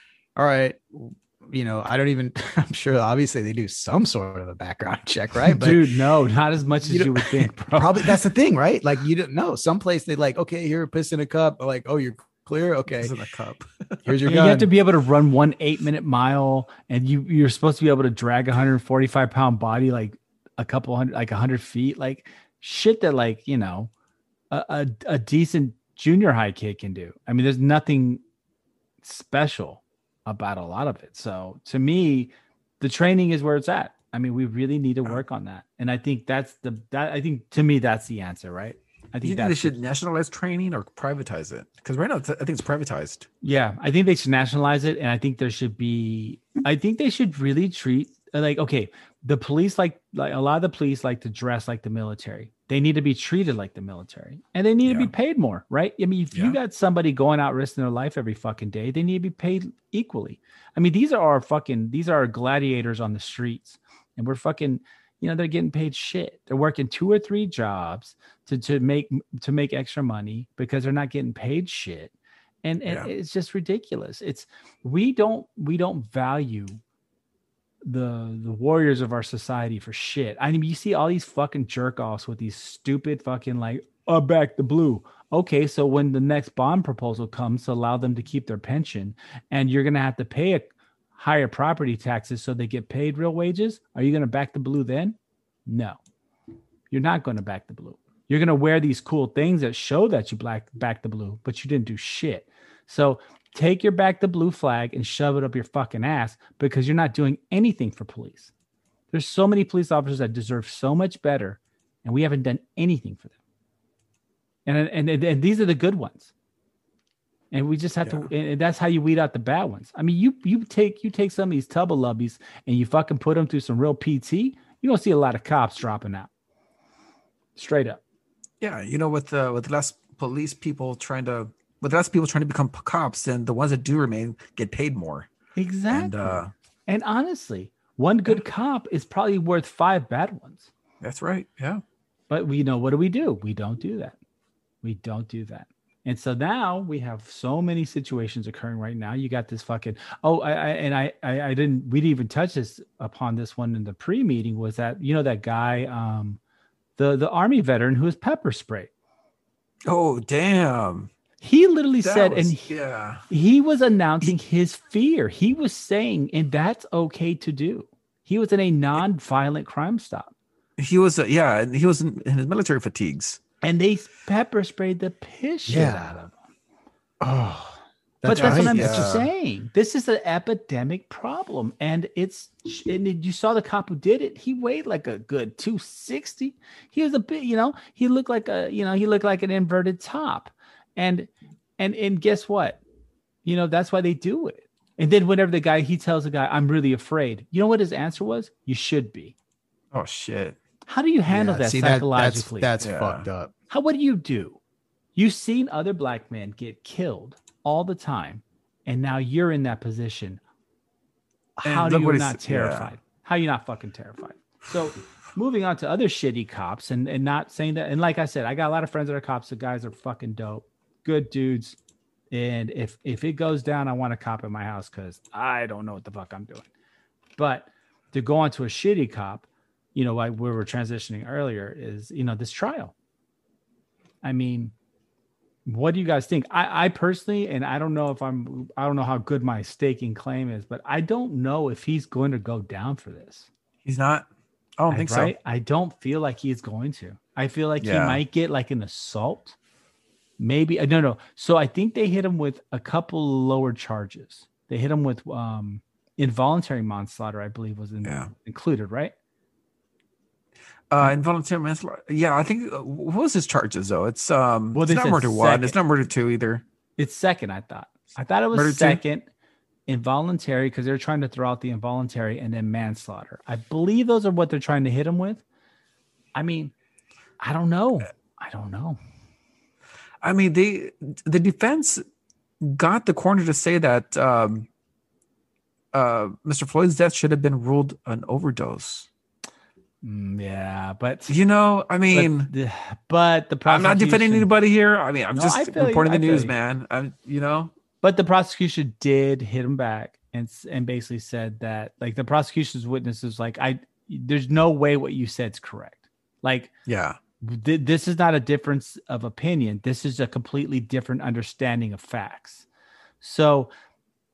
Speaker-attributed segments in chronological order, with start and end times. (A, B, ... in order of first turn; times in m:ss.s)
0:00.4-0:05.9 A
0:05.4-0:08.2 B
0:06.9-0:13.1 A
0:13.0-0:14.2 C
0:14.0-0:14.7 A
0:14.2-0:23.9 B
0:24.5-0:28.2 B
0:29.0-0:39.8 B
0:39.2-0:43.3 C
0:43.4-1:12.1 B
0:54.8-0:55.1 C
1:12.6-1:16.8 B
1:17.8-1:36.0 B
1:36.9-1:48.5 B
1:49.1-1:53.4 B
1:54.7-1:56.3 B
1:57.5-2:06.3 B
2:07.6-2:08.0 B
2:08.6-2:15.3 C
2:15.6-2:20.7 B
2:15.9-2:16.5 C
2:21.0-2:21.8 C
2:22.3-2:24.2 B
2:24.8-2:36.4 B
2:37.0-2:38.9 B
2:39.9-2:41.1 C
2:41.4-2:42.7 B
2:42.0-2:43.2 C
2:43.3-2:50.3 B
2:50.8-2:53.4 C
2:53.6-2:56.3 B
2:55.7-2:56.2 A
2:57.2-2:59.2 A
2:58.2-3:12.8 B
2:58.3-2:59.3 C
3:13.4-3:19.3 B
3:19.9-3:20.6 C
3:20.9-3:22.7 B
3:21.3-3:23.5 A
3:22.8-3:23.3 C
3:23.7-3:24.6 B
3:25.2-3:30.4 B
3:31.6-3:41.8 B
3:31.6-3:32.9 C
3:42.3-3:46.7 B
3:47.4-3:52.9 B
3:54.2-3:54.7 B
3:55.7-4:03.5 B
4:03.8-4:04.3 C
4:04.8-4:05.3 C
4:04.9-4:09.6 B
4:07.8-4:08.2 C
4:10.4-4:19.1 B
4:18.0-4:18.3 C
4:20.9-4:26.6 C
4:24.7-4:25.8 B
4:27.0-4:29.3 B
4:28.5-4:29.0 C
4:29.9-4:35.4 B
4:36.4-4:36.7 B
4:37.4-4:39.0 B
4:40.2-4:42.0 C
4:42.6-4:44.7 C
4:45.9-4:49.1 C
4:50.0-4:51.4 B
4:51.3-4:52.5 C
4:52.1-4:54.5 B
4:53.7-4:57.7 C
4:55.3-4:56.5 B
4:58.0-5:06.7 B
5:06.9-5:07.2 C
5:07.4-5:12.6 B
5:13.2-5:13.7 B